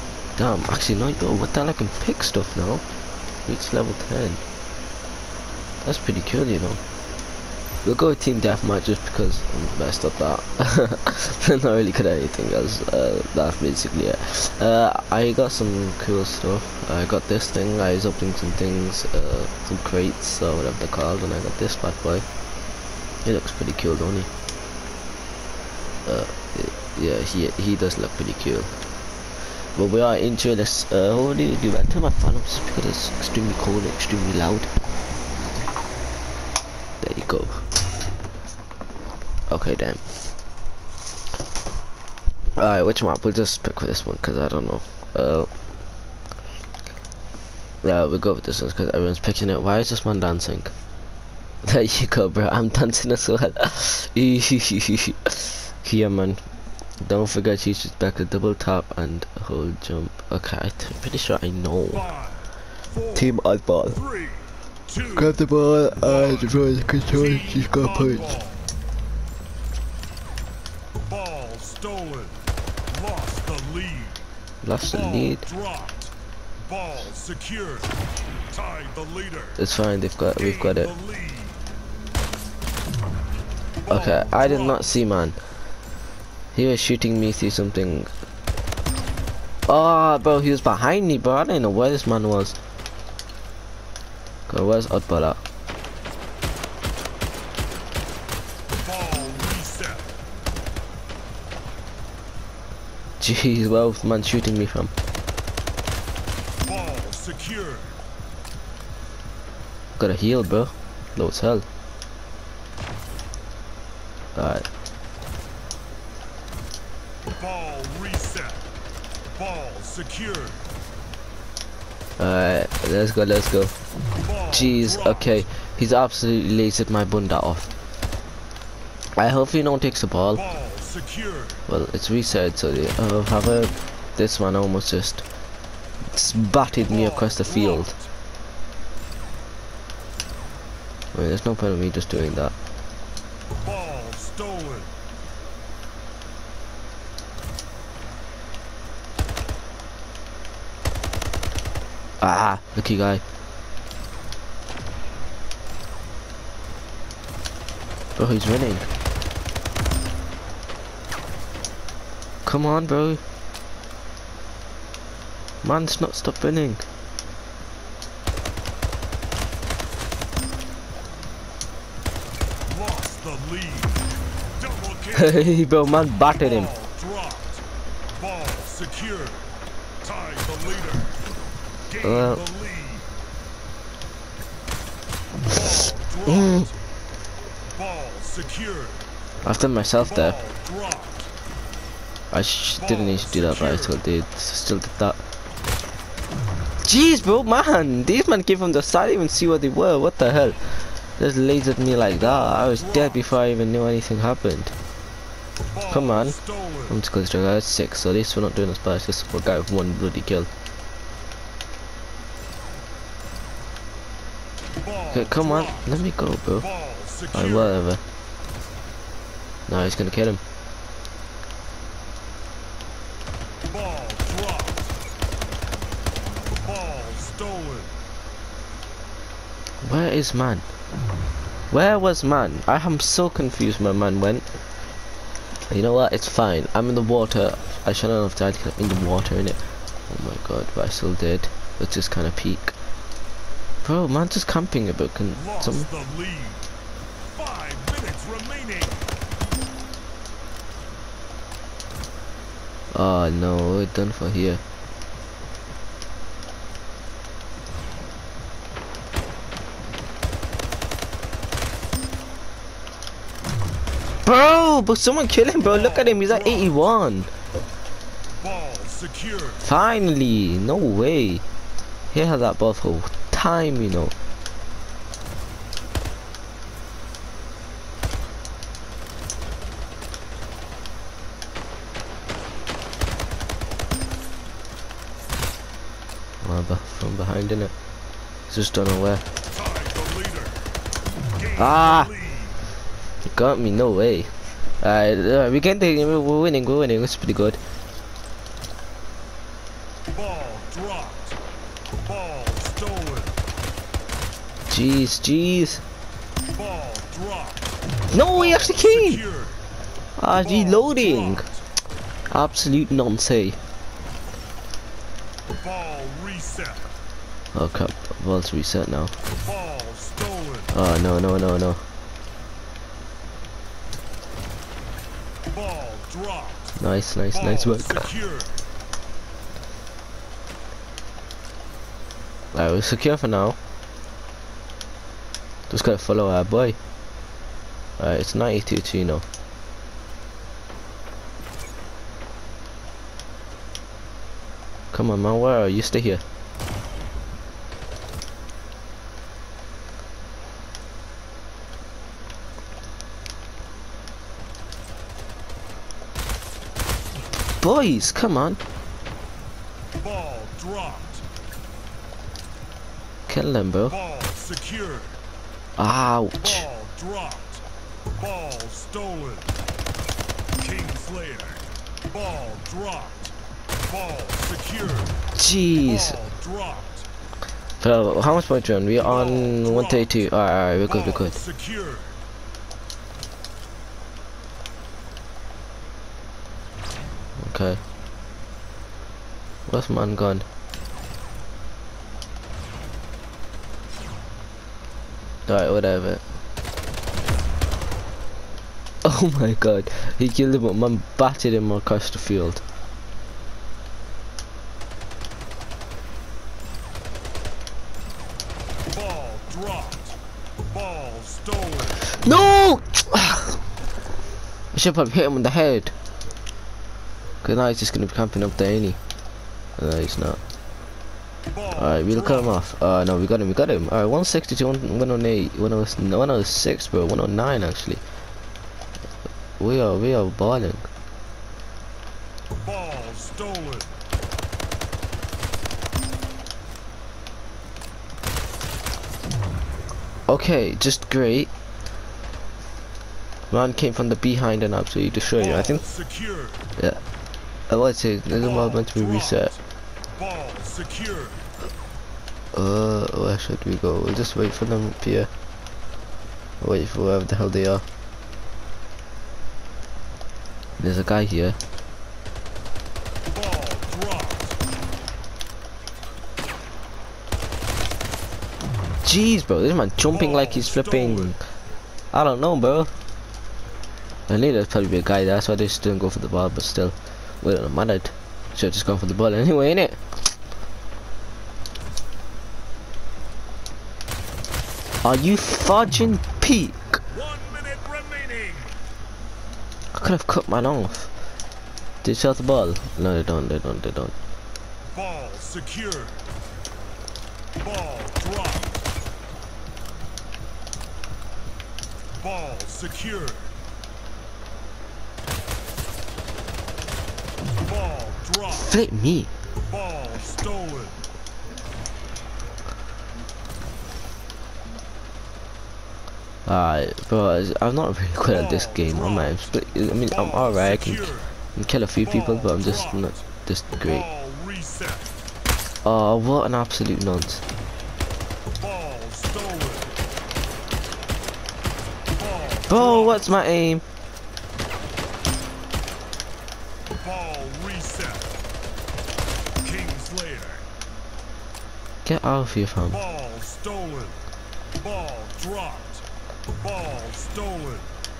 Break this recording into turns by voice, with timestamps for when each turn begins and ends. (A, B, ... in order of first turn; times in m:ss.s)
0:00.4-0:02.8 A
0:03.4-0:04.4 A
0:05.8-0:06.8 A
0:07.8-0:22.2 A
0:23.2-0:24.3 A
0:26.0-0:28.7 A
0:29.7-0:34.7 A
0:37.0-0:37.6 A
0:39.5-0:40.0 A
0:42.6-0:45.5 A
0:47.8-0:50.7 A
0:51.6-0:56.4 A
0:57.0-1:02.0 A
1:01.9-1:05.4 B
1:03.1-1:04.0 A
1:05.2-1:08.2 A
1:05.9-1:08.8 B
1:11.0-1:14.2 B
1:14.6-1:15.4 A
1:14.9-1:18.0 B
1:18.5-1:19.6 B
1:19.6-1:20.9 A
1:20.3-1:21.6 B
1:23.8-1:24.8 B
1:23.9-1:25.4 A
1:26.5-1:28.1 A
1:29.7-1:32.6 A
1:34.5-1:35.4 A
1:38.7-1:40.1 B
1:43.2-1:44.9 A
1:46.6-1:48.0 B
1:50.0-1:51.6 A
1:54.3-1:54.6 A
1:57.3-1:58.6 B
1:59.3-2:00.7 B
2:02.2-2:03.7 A
2:04.1-2:05.4 B
2:04.5-2:07.7 A
2:09.2-2:10.4 A
2:10.3-2:11.6 B
2:11.7-2:15.2 A
2:16.1-2:17.9 A
2:16.8-2:18.1 B
2:21.1-2:22.5 A
2:23.6-2:24.9 B
2:32.2-2:33.2 A
2:38.2-2:38.9 A
2:42.4-2:43.2 A
2:45.6-2:46.8 A
2:52.6-2:57.6 B
2:55.1-2:56.7 A
2:58.1-2:59.5 B
3:00.0-3:01.1 B
3:01.9-3:03.1 B
3:02.0-3:02.4 A
3:05.4-3:06.7 B
3:06.3-3:06.7 A
3:07.7-3:09.1 B
3:09.4-3:10.4 A
3:10.0-3:11.3 B
3:12.3-3:15.2 A
3:12.8-3:14.0 B
3:16.8-3:24.7 A
3:22.2-3:23.2 B
3:25.7-3:27.0 B
3:25.9-3:30.5 A
3:34.7-3:36.0 B
3:35.1-3:36.7 A
3:36.6-3:37.8 B
3:37.3-3:38.0 A
3:39.7-3:40.4 A
3:43.6-3:44.9 B
3:46.5-3:47.9 B
3:49.8-3:50.7 A
3:51.7-3:54.5 A
3:55.7-4:02.7 A
4:03.8-4:05.8 A
4:05.3-4:06.6 B
4:07.3-4:09.1 B
4:12.9-4:14.6 A
4:24.2-4:27.3 A
4:25.6-4:26.8 B
4:28.4-4:29.6 B
4:29.6-4:31.4 A
4:32.1-4:34.1 A
4:46.4-4:47.7 A
4:48.5-4:49.2 A
4:49.5-4:50.7 B
4:51.3-4:52.6 B
4:51.6-4:52.1 A
4:53.3-4:57.6 A
5:00.1-5:01.4 B
5:01.9-5:03.4 B
5:04.7-5:05.8 A
5:06.4-5:07.8 B
5:08.1-5:09.2 A
5:08.3-5:09.6 B
5:10.2-5:11.4 A
5:10.3-5:11.6 B
5:12.3-5:13.6 A
5:15.5-5:16.9 B
5:17.5-5:19.1 A
5:19.3-5:20.7 B
5:20.7-5:21.8 A
5:25.5-5:26.8 B
5:26.8-5:28.1 A
5:27.3-5:28.6 B
5:32.5-5:33.6 A
5:35.7-5:36.8 A
5:38.0-5:39.2 A
5:44.9-5:46.2 A
5:57.6-5:58.6 A
5:59.9-6:01.2 B
6:03.3-6:04.0 A
6:03.9-6:05.2 B
6:05.8-6:06.6 A
6:06.4-6:07.6 B
6:08.1-6:09.5 B
6:10.6-6:15.2 B
6:15.3-6:16.2 A
6:15.8-6:17.1 B
6:17.8-6:21.4 A
6:19.0-6:20.2 B
6:20.8-6:22.2 B
6:27.4-6:27.8 A
6:29.7-6:30.4 A
6:35.5-6:36.2 A
6:39.0-6:42.6 A
6:48.8-6:52.1 B
6:52.1-6:53.6 A
6:54.7-6:55.9 A
6:57.4-6:59.0 A
6:59.8-7:00.4 A
7:01.5-7:02.6 B
7:01.7-7:08.0 A
7:09.6-7:10.9 A
7:12.6-7:13.9 B
7:20.3-7:21.5 A
7:23.5-7:25.8 A
7:25.4-7:26.7 B
7:27.7-7:29.5 A
7:28.4-7:29.6 B
7:30.1-7:31.5 B
7:32.5-7:35.3 A
7:36.6-7:37.8 A
7:40.8-7:41.6 A
7:43.3-7:44.6 B
7:49.0-7:51.4 A
7:50.1-7:51.3 B
7:52.1-7:52.9 A
7:54.3-8:00.0 A
8:05.0-8:07.0 A
8:07.1-8:08.8 B
8:09.9-8:11.1 A
8:12.0-8:14.1 A
8:14.9-8:16.2 B
8:17.6-8:18.8 B
8:22.2-8:23.5 B
8:27.6-8:28.8 B
8:28.5-8:29.3 A
8:29.6-8:31.0 B
8:36.4-8:44.0 A
8:38.3-8:39.5 B
8:40.0-8:41.4 B
8:42.0-8:43.2 B
8:43.8-8:45.1 B
8:45.8-8:47.4 A
8:48.5-8:50.0 B
8:52.1-8:53.3 B
8:52.7-8:53.8 A
8:56.9-8:58.4 B
8:59.6-9:00.6 B
9:02.0-9:03.0 A
9:02.9-9:04.2 B
9:04.8-9:07.9 B